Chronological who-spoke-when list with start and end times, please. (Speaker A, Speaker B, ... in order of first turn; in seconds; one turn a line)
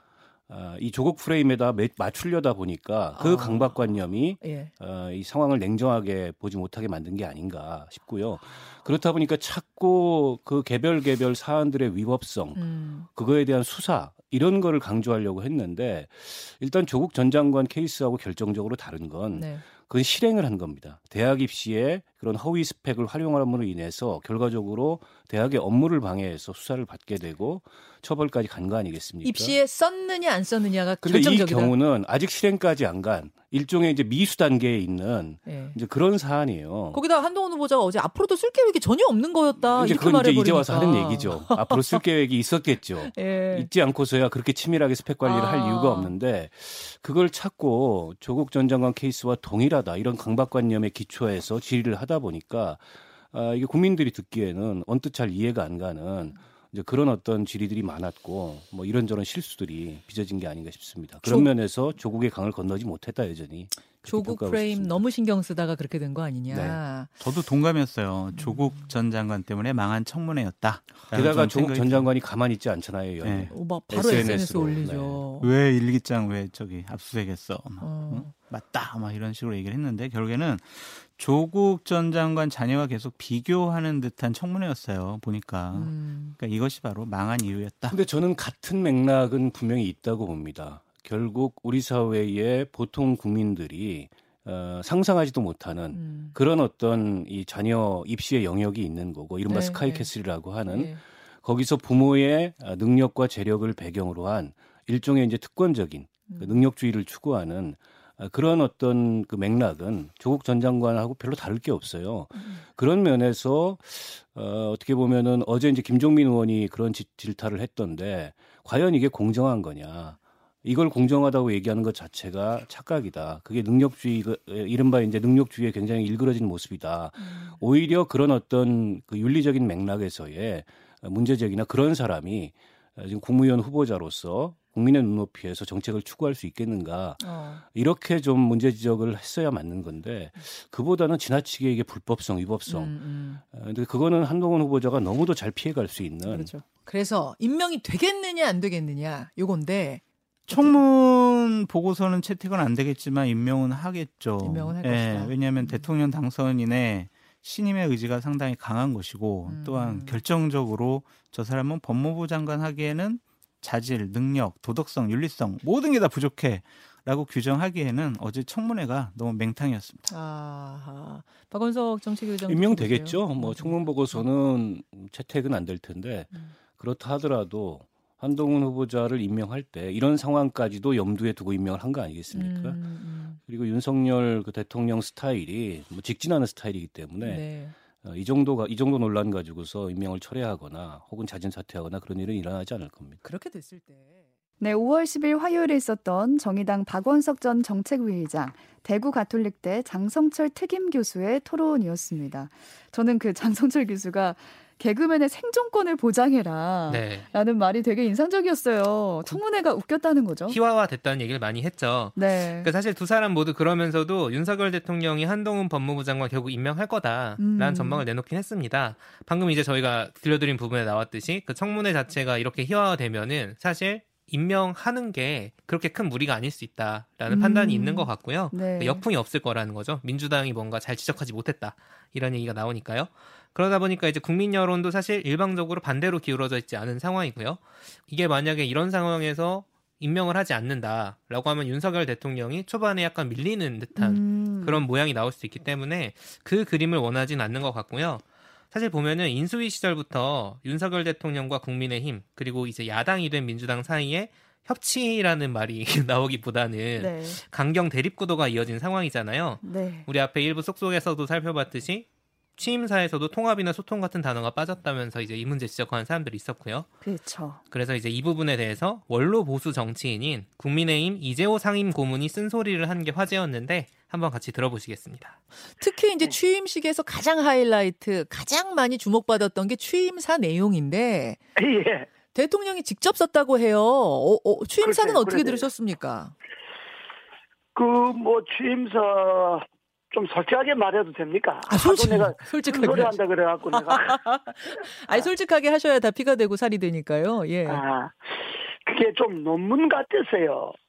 Speaker A: 0.5-29.6
Speaker B: 3.1-3.8
Speaker B: 4.4-4.7
Speaker B: 12.6-13.1
Speaker B: 19.3-19.6
Speaker B: 29.2-31.7
Speaker A: 31.0-37.0
Speaker B: 35.5-35.8
Speaker B: 36.9-42.0
Speaker A: 39.7-65.0
Speaker B: 43.1-43.7
Speaker B: 45.2-46.1
Speaker B: 61.2-61.5
Speaker B: 64.0-67.1
Speaker A: 66.5-66.8
Speaker C: 67.2-72.1
Speaker B: 68.3-68.9
Speaker A: 71.1-75.3
Speaker C: 73.2-74.4
Speaker B: 73.5-75.5
Speaker C: 75.3-88.0
Speaker B: 77.8-78.3
Speaker B: 85.7-86.4
Speaker A: 87.9-142.9
Speaker B: 95.9-96.3
Speaker B: 99.5-101.0
Speaker B: 106.3-106.6
Speaker B: 127.2-127.6
Speaker B: 137.2-137.6
Speaker B: 142.7-143.4
Speaker A: 143.5-146.5
Speaker B: 146.2-150.8
Speaker C: 150.5-170.1
Speaker B: 154.4-155.9
Speaker B: 159.4-160.2
Speaker B: 170.1-174.2
Speaker A: 172.4-193.2
Speaker B: 182.3-183.4
Speaker B: 187.2-187.7
Speaker B: 193.2-194.3
Speaker D: 194.6-210.6
Speaker E: 206.9-207.3
Speaker E: 210.5-266.9
Speaker D: 212.2-212.7
Speaker D: 217.4-218.0
Speaker D: 227.3-229.0
Speaker D: 243.9-244.8
Speaker D: 257.0-257.4
Speaker D: 259.6-260.1
Speaker D: 267.0-267.6
Speaker E: 267.7-275.4
Speaker B: 275.8-281.4
Speaker F: 281.6-282.1
Speaker B: 282.3-286.3
Speaker F: 284.8-285.6
Speaker F: 287.7-294.2
Speaker B: 291.7-293.1
Speaker B: 293.7-297.8
Speaker F: 297.6-300.7